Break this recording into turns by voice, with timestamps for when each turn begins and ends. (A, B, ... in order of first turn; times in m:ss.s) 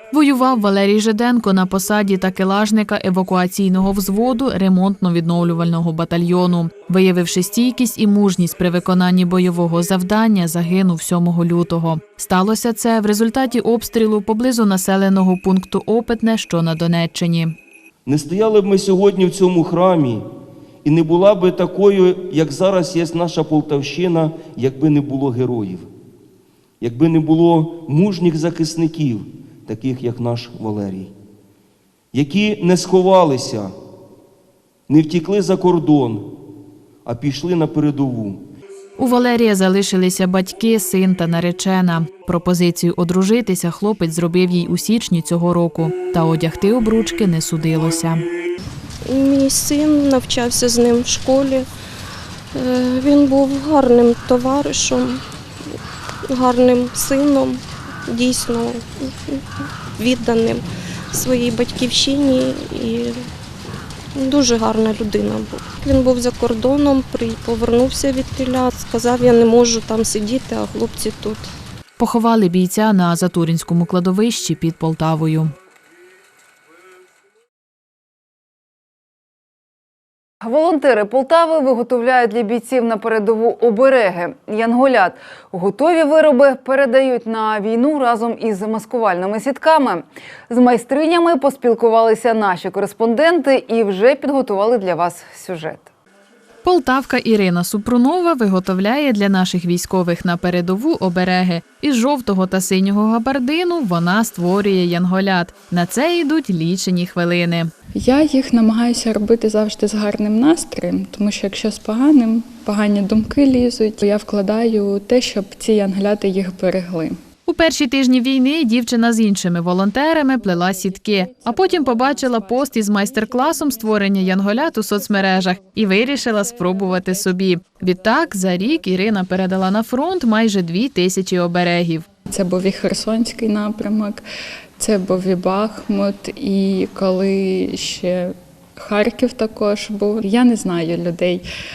0:00.1-0:17.6 A
0:18.1-0:20.3 B
0:20.8-0:25.9 B
0:26.8-0:31.1 B
0:32.1-0:33.7 B
0:34.9-0:36.3 B
0:37.1-0:38.4 B
0:39.0-0:48.2 A
0:49.0-0:51.7 C
0:52.6-0:55.2 C
0:56.3-1:03.3 C
1:04.2-1:11.5 C
1:12.0-1:15.5 A
1:20.4-1:35.9 D
1:36.6-1:47.7 A
1:48.0-1:57.2 E
1:57.5-2:12.0 A
2:00.8-2:04.4 E
2:05.0-2:05.6 E
2:06.8-2:07.2 E
2:12.3-2:14.2 E
2:14.8-2:21.5 E